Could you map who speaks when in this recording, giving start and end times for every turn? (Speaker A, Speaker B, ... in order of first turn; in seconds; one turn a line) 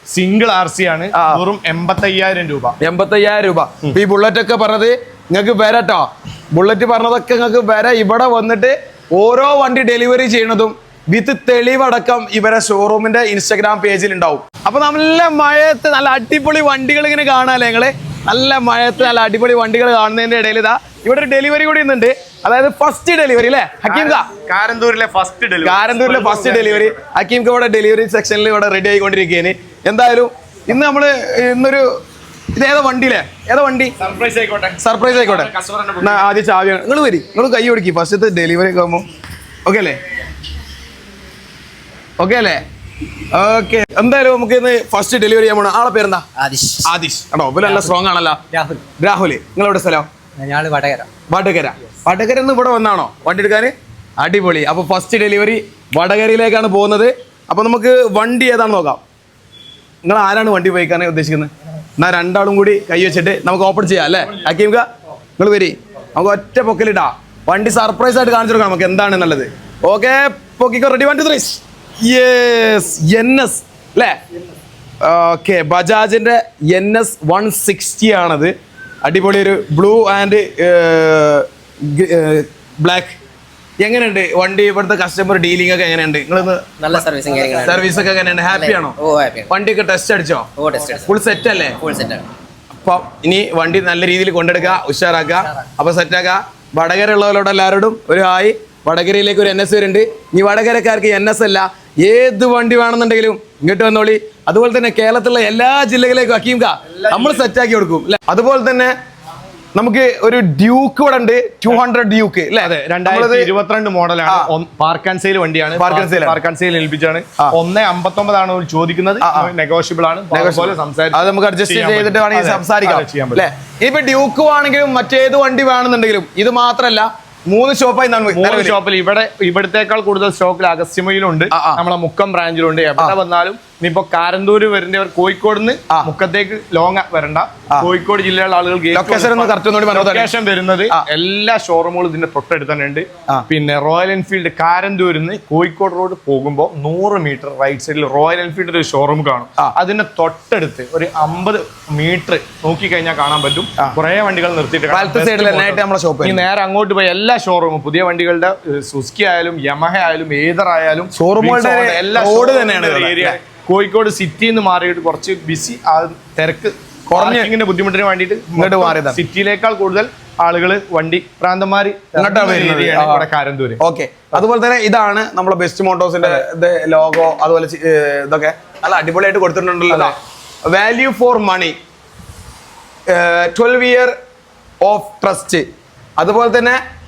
Speaker A: 0.1-2.8
Speaker B: 1.1-1.4
Speaker B: 2.8-24.3
Speaker A: 23.9-26.9
Speaker B: 25.6-31.9
Speaker B: 32.5-33.9
Speaker A: 34.0-36.2
Speaker B: 34.8-39.1
Speaker B: 39.6-40.0
Speaker B: 42.2-42.6
Speaker B: 43.3-46.3
Speaker C: 46.4-46.9
Speaker B: 46.8-50.1
Speaker C: 47.6-47.9
Speaker C: 48.5-48.8
Speaker C: 50.4-51.1
Speaker B: 51.3-59.0
Speaker B: 60.0-64.9
Speaker B: 65.4-74.2
Speaker B: 75.0-83.2
Speaker B: 83.8-86.9
Speaker C: 86.8-88.0
Speaker B: 87.6-89.0
Speaker C: 88.5-89.5
Speaker B: 89.5-90.5
Speaker C: 90.6-91.1
Speaker B: 91.0-91.8
Speaker C: 91.8-92.3
Speaker B: 92.7-108.9
Speaker A: 106.9-107.5
Speaker B: 109.8-113.5
Speaker A: 112.6-123.5
Speaker B: 114.3-114.5
Speaker B: 115.8-116.4
Speaker B: 119.2-119.5
Speaker B: 120.3-128.8
Speaker A: 128.3-173.8
Speaker B: 131.5-131.8
Speaker B: 138.9-140.3
Speaker B: 154.9-156.5
Speaker B: 161.2-163.4
Speaker B: 167.1-167.5
Speaker B: 168.5-169.2
Speaker B: 172.2-173.3
Speaker B: 173.8-180.2
Speaker A: 179.9-180.2
Speaker B: 180.7-181.8
Speaker B: 183.1-184.2
Speaker B: 184.8-185.7
Speaker B: 186.2-186.8